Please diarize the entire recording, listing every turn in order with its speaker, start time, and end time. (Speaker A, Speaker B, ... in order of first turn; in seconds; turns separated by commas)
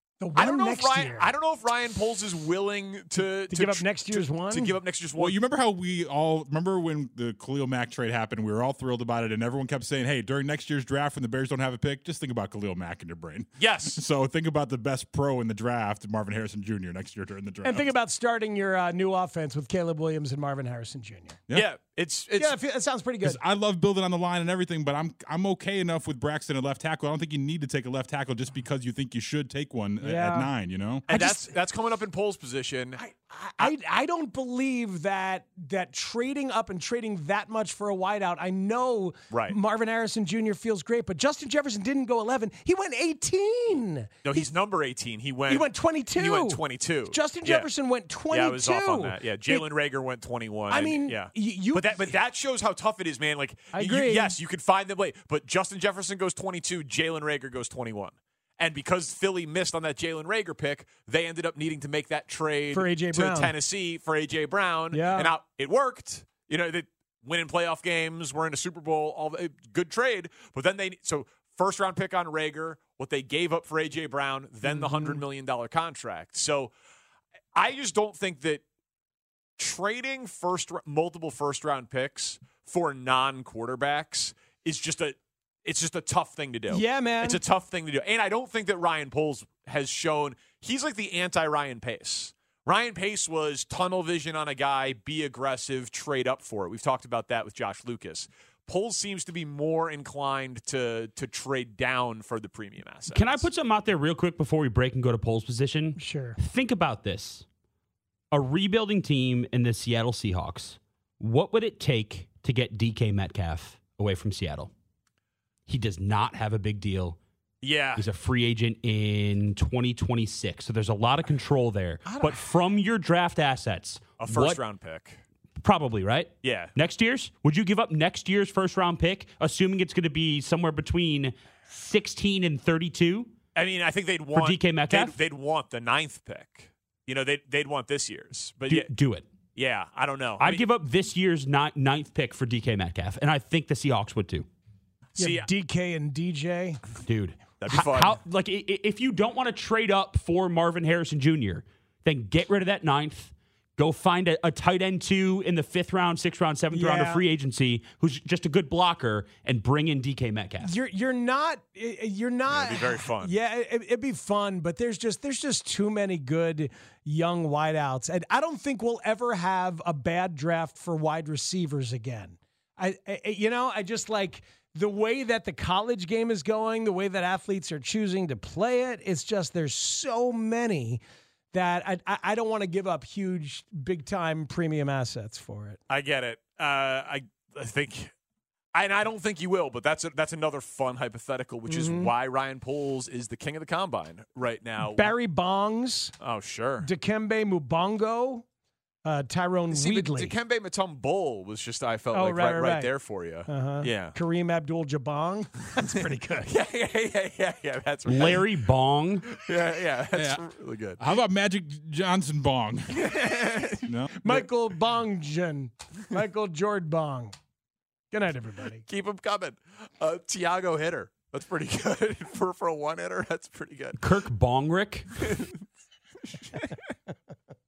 Speaker A: 0.2-1.3, Speaker B: 0.3-5.4, Speaker A: 3.5-4.8, Speaker C: 5.2-17.9, Speaker B: 13.6-14.0, Speaker A: 17.6-21.4, Speaker B: 21.5-22.6, Speaker A: 22.4-23.4, Speaker C: 23.2-31.1, Speaker A: 30.0-30.5, Speaker B: 31.1-33.0, Speaker A: 31.1-31.6, Speaker A: 33.0-44.5, Speaker B: 39.3-39.6, Speaker B: 44.2-47.7, Speaker A: 45.5-49.7, Speaker B: 48.3-76.7, Speaker A: 50.7-52.1, Speaker A: 53.7-54.4, Speaker A: 62.7-63.5, Speaker A: 64.9-65.4, Speaker A: 74.7-75.2, Speaker B: 77.5-78.6, Speaker B: 79.6-103.5, Speaker A: 86.7-87.4, Speaker D: 103.1-107.5, Speaker A: 106.0-106.4, Speaker D: 108.3-114.7, Speaker D: 115.7-117.2, Speaker B: 117.6-118.1, Speaker D: 118.0-124.6, Speaker A: 122.0-122.4, Speaker B: 124.2-125.2, Speaker D: 125.6-133.3, Speaker B: 126.4-126.8, Speaker B: 133.6-138.9, Speaker D: 134.3-135.2, Speaker D: 138.7-139.3, Speaker B: 139.6-140.7, Speaker D: 140.4-144.5, Speaker A: 145.2-146.8, Speaker B: 145.2-145.5, Speaker D: 147.1-160.8, Speaker B: 147.6-148.2, Speaker A: 156.7-157.3, Speaker A: 160.6-185.8, Speaker B: 162.5-163.3, Speaker B: 185.9-188.1, Speaker B: 188.7-195.1, Speaker A: 191.7-192.1, Speaker A: 194.8-196.1, Speaker B: 196.2-196.9, Speaker A: 196.8-198.4, Speaker A: 199.0-200.3, Speaker B: 199.7-204.2, Speaker A: 202.1-202.9, Speaker A: 203.5-206.5, Speaker B: 206.4-208.5, Speaker D: 208.1-209.3, Speaker B: 209.3-211.0, Speaker C: 210.1-210.4, Speaker C: 211.0-213.0, Speaker B: 212.9-214.5, Speaker C: 213.8-214.1, Speaker A: 214.2-217.3, Speaker A: 218.1-218.8, Speaker B: 218.9-224.0, Speaker D: 224.0-225.1, Speaker B: 225.2-225.6, Speaker B: 226.3-226.7